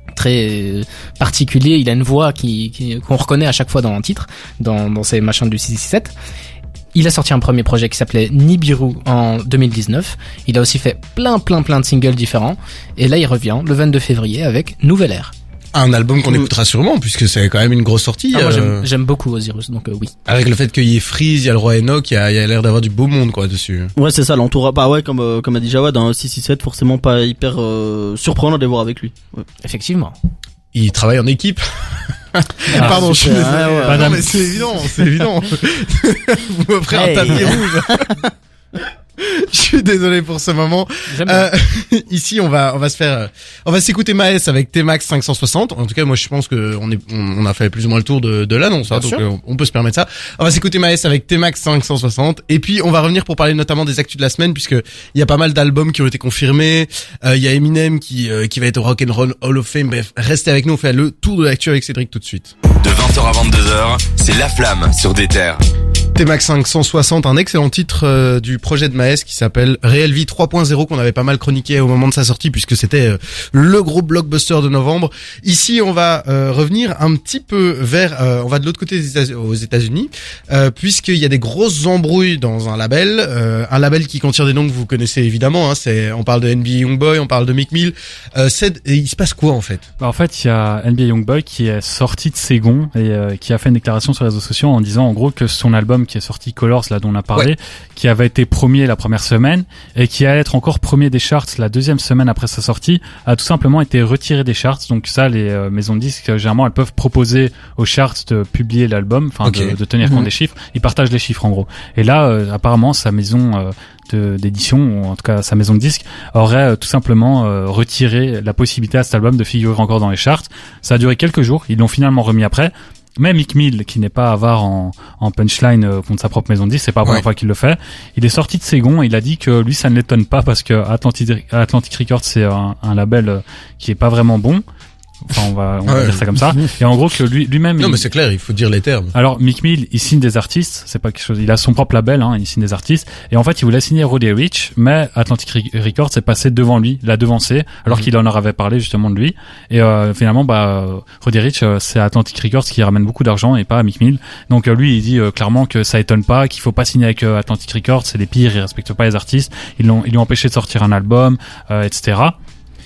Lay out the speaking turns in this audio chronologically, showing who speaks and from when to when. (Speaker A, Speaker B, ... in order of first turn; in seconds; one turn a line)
Speaker A: 0.2-6.1
Speaker A: 7.0-15.3
Speaker B: 15.7-18.9
Speaker A: 18.3-20.1
Speaker B: 20.3-23.9
Speaker C: 24.0-29.4
Speaker A: 29.6-30.2
Speaker B: 30.7-38.2
Speaker D: 32.7-34.5
Speaker C: 32.8-34.3
Speaker C: 36.9-38.1
Speaker B: 39.2-62.5
Speaker A: 41.1-41.5
Speaker E: 62.8-65.6
Speaker B: 66.2-89.8
Speaker D: 90.0-134.6
Speaker B: 109.4-109.8
Speaker C: 110.0-110.3
Speaker D: 135.3-138.1
Speaker B: 135.9-136.6
Speaker B: 137.8-139.1
Speaker D: 139.1-162.4